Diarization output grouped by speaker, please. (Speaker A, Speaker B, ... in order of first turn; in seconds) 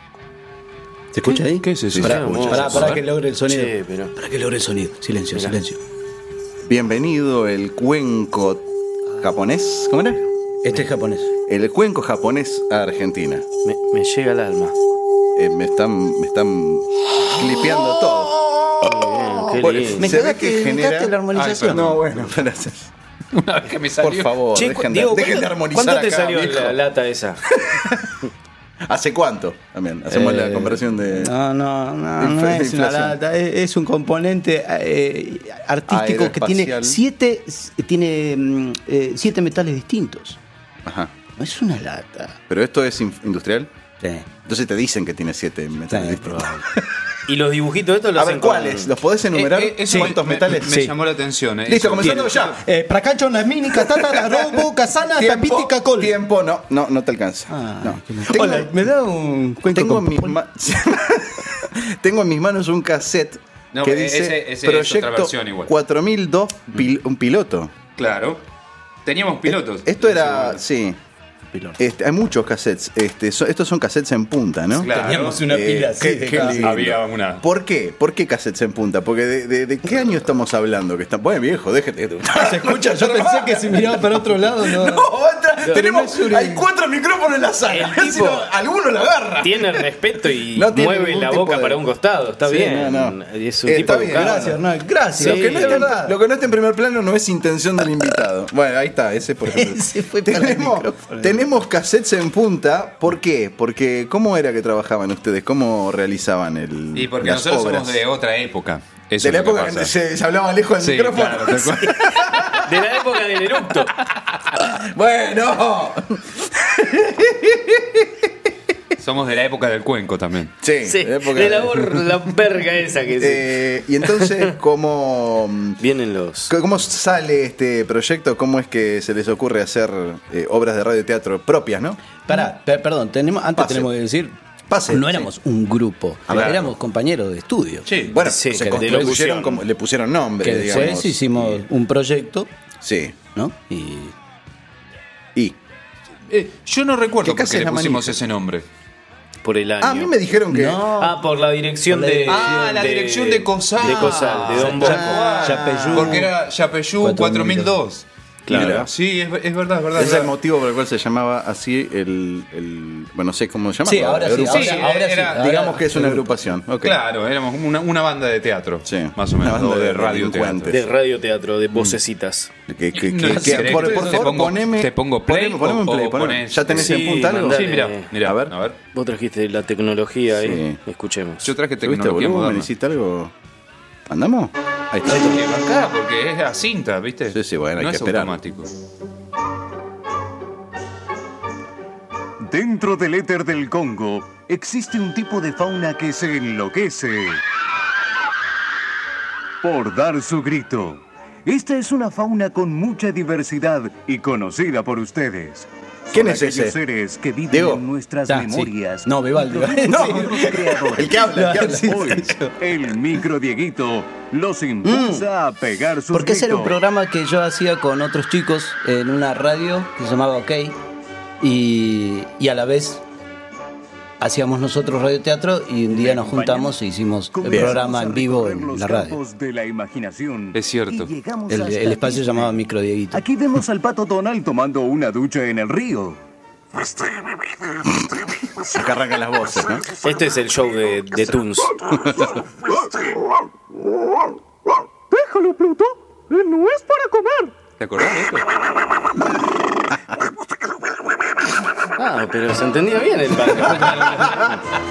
Speaker A: 1.1-5.8, 10.6-11.3, 20.0-21.9, 30.1-40.4, 41.4-42.4, 44.0-44.3, 45.9-46.6, 49.9-50.9, 52.0-56.1, 57.5-60.4, 74.9-76.8, 82.3-85.1, 85.6-86.6, 94.0-96.2, 99.5-101.4, 132.3-134.3, 134.9-137.9, 138.6-139.2, 140.4-142.5, 143.3-144.2, 150.5-151.2, 151.9-152.9, 153.8-156.3, 157.0-157.8, 163.9-166.3, 173.3-174.1, 208.3-212.6, 214.8-215.2, 216.1-220.8, 221.4-223.0, 224.2-229.2, 231.5-233.2
Speaker B: 1.6-3.0, 21.3-22.0, 23.4-24.4, 49.3-52.5, 63.7-65.7, 68.0-68.4, 69.0-70.6, 74.8-75.4, 76.4-77.4, 107.0-109.9, 110.8-112.2, 119.0-120.6, 137.9-138.2, 146.3-148.7, 152.3-160.3, 164.4-165.5, 166.8-170.8, 173.0-178.8, 181.4-182.7, 185.1-188.7, 230.5-231.1, 247.8-248.5
Speaker C: 1.9-2.8, 6.7-8.6, 9.2-10.2, 11.5-13.4, 15.4-18.4, 19.5-21.2, 21.7-22.9, 24.0-26.8, 27.6-28.1, 28.9-31.3, 32.2-33.2, 35.9-37.0, 40.9-41.1, 42.5-43.7, 44.5-46.8, 48.2-50.9, 51.7-52.6, 53.7-58.8, 59.7-67.7, 69.4-71.0, 71.8-89.8, 90.5-91.8, 92.5-94.6, 95.2-108.0, 109.2-112.7, 114.5-118.2, 120.6-122.0, 123.2-125.8, 126.5-132.0, 133.6-133.9, 134.7-135.3, 136.3-136.7, 138.1-141.6, 142.8-143.2, 147.2-148.2, 149.8-150.9, 155.1-156.2, 158.5-158.9, 160.0-167.0, 168.8-170.8, 171.7-172.0, 172.7-177.6, 178.2-178.5, 180.3-180.8, 181.8-183.3, 184.1-185.4, 187.3-188.4, 206.1-206.8, 207.5-207.8, 209.8-211.9, 227.5-227.8, 238.6-239.8, 241.9-242.4
Speaker D: 2.0-4.1, 13.7-14.8, 18.8-20.1, 24.6-27.4, 47.3-48.9, 87.7-88.5, 89.4-94.6, 95.1-96.0, 112.6-113.9, 120.8-124.5, 125.8-126.5, 138.2-139.6, 149.4-150.1, 151.0-155.4, 158.5-158.8, 170.7-172.5, 176.7-178.1, 178.9-181.5, 240.0-241.8, 252.0-254.6
Speaker E: 192.4-197.4, 199.6-216.8, 225.9-226.8, 227.3-232.5, 233.1-236.2
Speaker F: 245.1-247.5